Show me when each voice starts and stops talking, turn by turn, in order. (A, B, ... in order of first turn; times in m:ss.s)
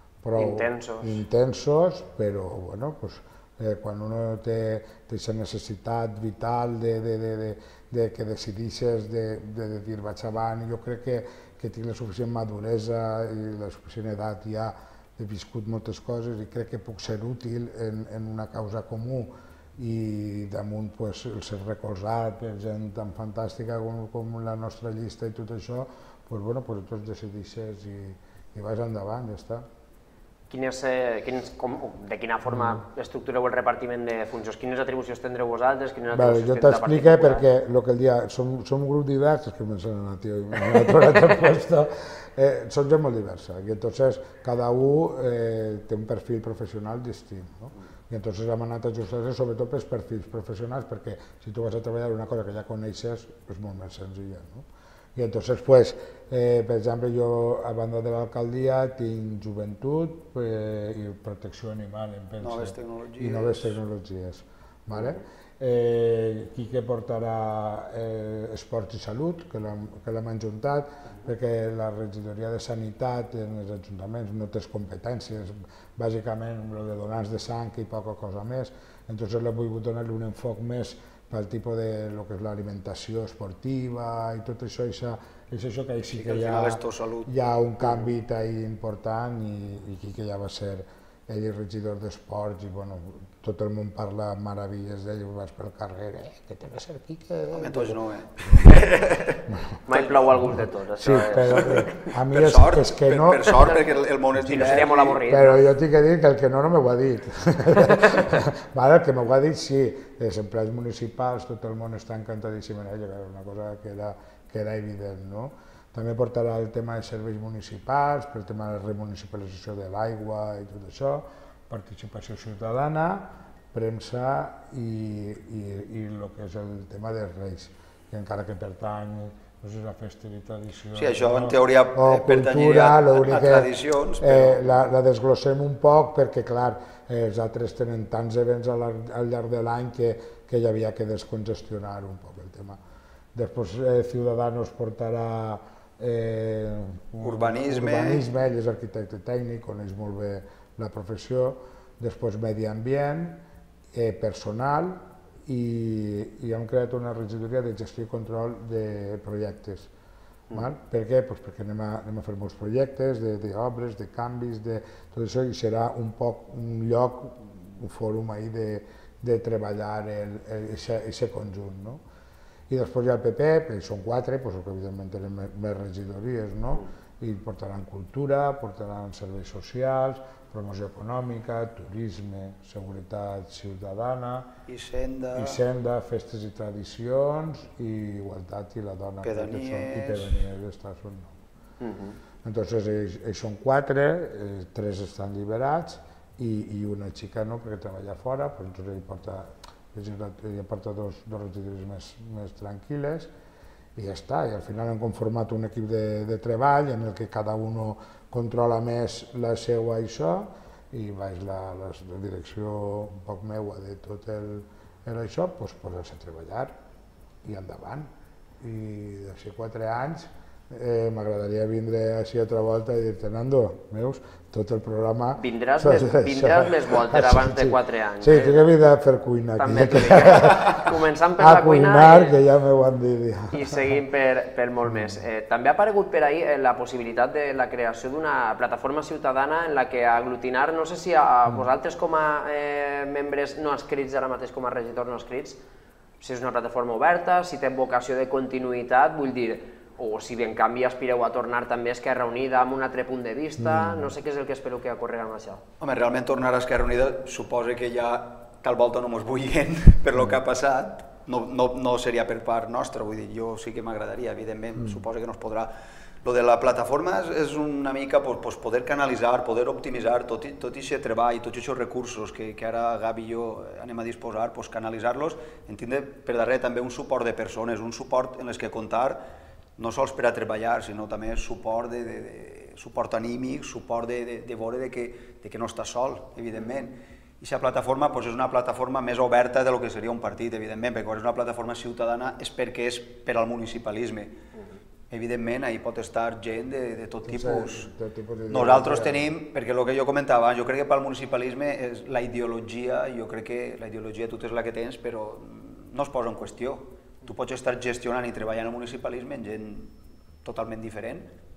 0:00.2-0:29.6 A
0:00.3-0:01.2 B
0:30.5-0:37.4 B
0:36.1-1:38.7 A
1:02.4-1:03.8 C
1:26.0-1:27.3 C
1:37.5-1:40.3 C
1:39.5-1:39.8 A
1:39.8-1:41.9 B
1:40.4-1:43.7 A
1:41.5-1:45.2 C
1:43.5-1:45.6 B
1:44.7-2:22.8 A
2:10.9-2:14.7 C
2:23.3-2:33.4 A
2:27.2-2:28.2 C
2:33.9-2:39.9 A
2:40.5-2:52.0 A
2:52.7-3:04.5 A
3:04.7-3:05.6 C
3:05.3-3:11.4 A
3:09.2-3:10.4 C
3:11.8-3:12.2 B
3:12.4-3:23.3 A
3:24.0-3:36.8 A
3:37.4-3:54.0 A
3:45.3-3:48.7 B
3:49.6-3:52.3 B
3:53.5-4:05.6 B
4:06.2-4:15.6 B
4:13.6-4:14.1 A
4:15.8-4:25.7 C
4:26.2-4:39.2 C
4:39.8-4:54.4 C
4:55.1-4:57.9 C
4:57.2-4:59.3 A
4:58.5-5:11.3 C